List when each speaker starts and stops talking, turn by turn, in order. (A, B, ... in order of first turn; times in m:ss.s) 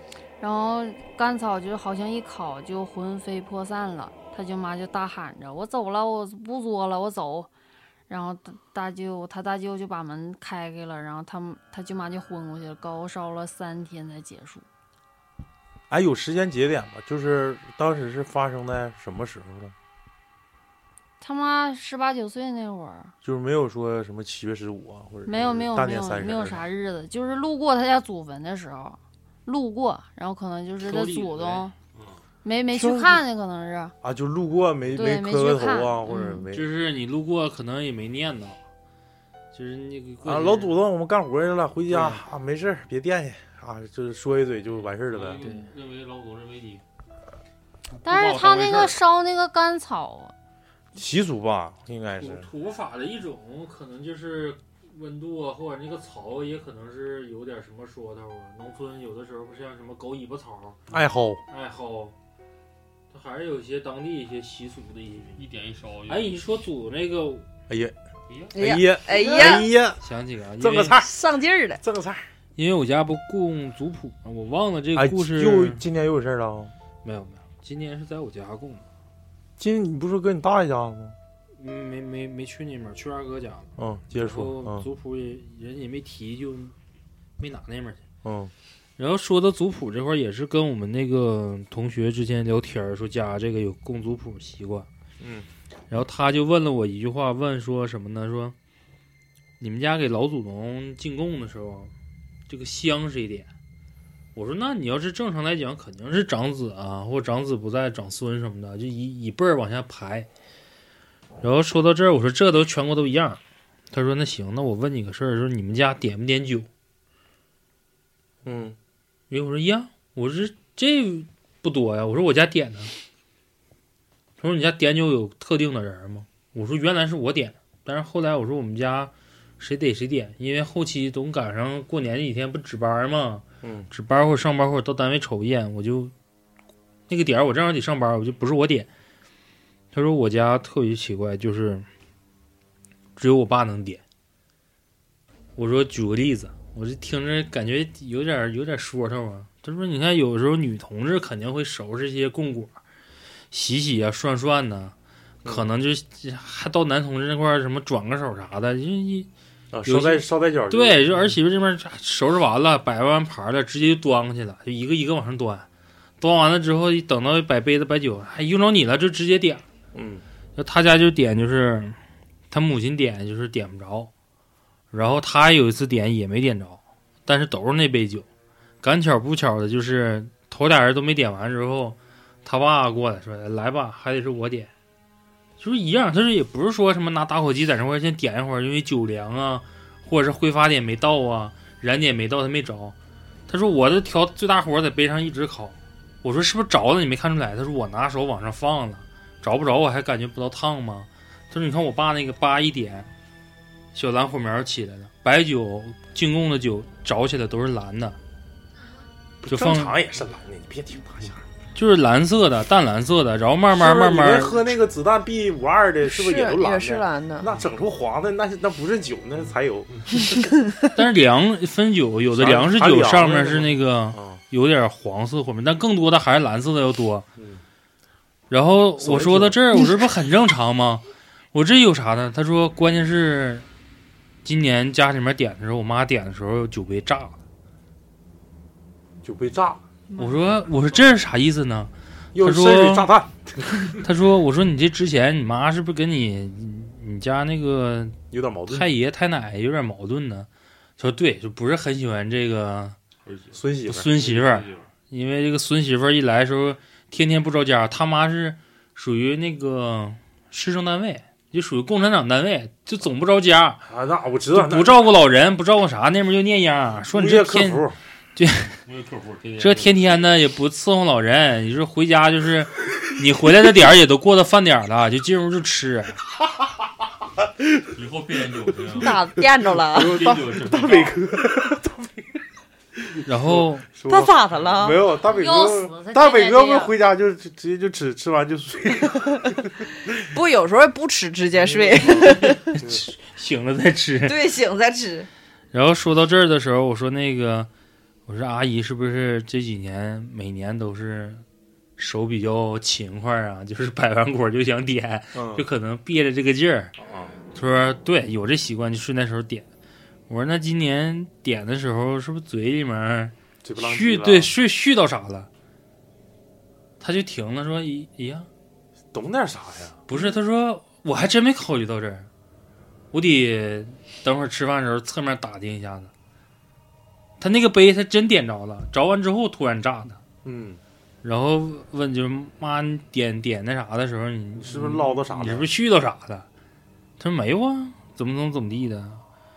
0:00.4-0:07.5 A
0:08.1-0:14.6 A
0:15.9-0:19.7 B
0:21.2-0:23.1 A
0:23.2-0:26.6 B
0:25.2-0:31.7 A
0:30.8-0:31.7 C
0:32.4-0:33.9 A
0:32.7-0:33.2 B
0:34.0-0:36.6 B
0:34.9-0:36.4 A
0:36.5-0:38.6 C
0:39.5-0:40.8 C
0:40.2-0:45.4 B
0:45.1-0:46.8 D
0:45.4-0:45.7 C
0:47.9-0:48.9 D
0:48.0-0:50.3 A
0:50.9-0:52.5 B
0:52.2-1:00.8 C
1:00.9-1:01.4 B
1:01.5-1:02.1 C
1:03.1-1:05.4 C
1:05.4-1:06.4 D
1:06.1-1:07.4 C
1:07.7-1:07.9 B
1:08.5-1:10.0 B
1:08.5-1:09.7 E
1:09.2-1:09.5 C
1:10.0-1:11.0 C
1:10.6-1:11.1 B
1:11.0-1:11.8 E
1:11.8-1:12.3 B
1:12.6-1:15.8 C
1:14.9-1:16.7 B
1:17.0-1:18.8 C
1:19.6-1:21.2 B
1:21.6-1:26.7 C
1:23.8-1:24.9 B
1:27.4-1:28.0 C
1:28.2-1:28.5 B
1:29.0-1:34.9 C
1:35.2-1:35.4 B
1:35.9-1:38.5 C
1:39.6-1:41.9 C
1:42.5-1:43.5 C
1:44.3-1:50.3 C
1:51.4-1:53.4 C
1:53.9-1:56.7 C
1:58.4-1:58.8 B
1:59.3-2:02.9 C
2:04.4-2:16.1 C
2:13.6-2:13.9 B
2:17.1-2:18.9 C
2:19.9-2:21.8 C
2:23.2-2:24.0 C
2:25.6-2:32.8 C
2:33.5-2:39.3 C
2:39.7-2:41.0 B
2:39.8-2:45.6 C
2:46.2-2:49.6 C
2:49.9-2:50.2 B
2:50.6-2:52.0 C
2:52.5-2:54.1 C
2:54.9-2:58.2 C
2:58.8-3:04.7 C
3:05.6-3:12.9 C
3:13.5-3:23.1 C
3:23.9-3:28.2 C
3:29.4-3:31.4 B
3:29.5-3:29.9 C
3:31.7-3:34.6 C
3:33.7-3:40.0 B
3:36.0-3:37.5 E
3:40.9-3:47.2 C
3:42.3-3:44.4 B
3:48.5-3:53.6 C
3:49.0-3:49.6 B
3:54.4-3:57.4 C
3:59.2-3:59.8 B
4:00.2-4:03.1 C
4:02.3-4:04.0 B
4:04.0-4:13.0 C
4:08.3-4:08.9 B
4:13.2-4:14.9 D
4:13.5-4:14.1 B
4:13.9-4:23.8 C
4:23.9-4:25.0 B
4:24.5-4:28.7 C
4:27.1-4:28.0 B
4:28.8-4:30.0 D
4:29.6-4:36.2 C
4:37.9-4:39.2 D
4:38.9-4:40.7 E
4:39.1-4:42.4 B
4:40.0-4:41.2 D
4:43.0-4:49.7 B
4:43.2-4:43.9 C
4:44.1-4:45.0 E
4:45.3-4:46.9 A
4:50.2-4:52.7 E
4:51.5-4:53.0 B
4:52.6-4:54.5 C
4:54.2-4:55.3 E
4:55.7-4:57.7 C
4:58.3-5:01.4 C
5:02.0-5:06.9 C
5:05.3-5:05.6 B
5:07.0-5:07.4 B
5:07.5-5:09.6 C
5:10.3-5:15.5 C
5:13.6-5:14.5 B
5:17.0-5:18.5 C
5:19.1-5:20.0 B
5:20.1-5:22.3 C
5:23.1-5:26.1 C
5:27.4-5:30.2 C
5:30.4-5:30.8 B
5:31.2-5:36.4 C
5:34.6-5:35.7 B
5:37.2-5:39.2 C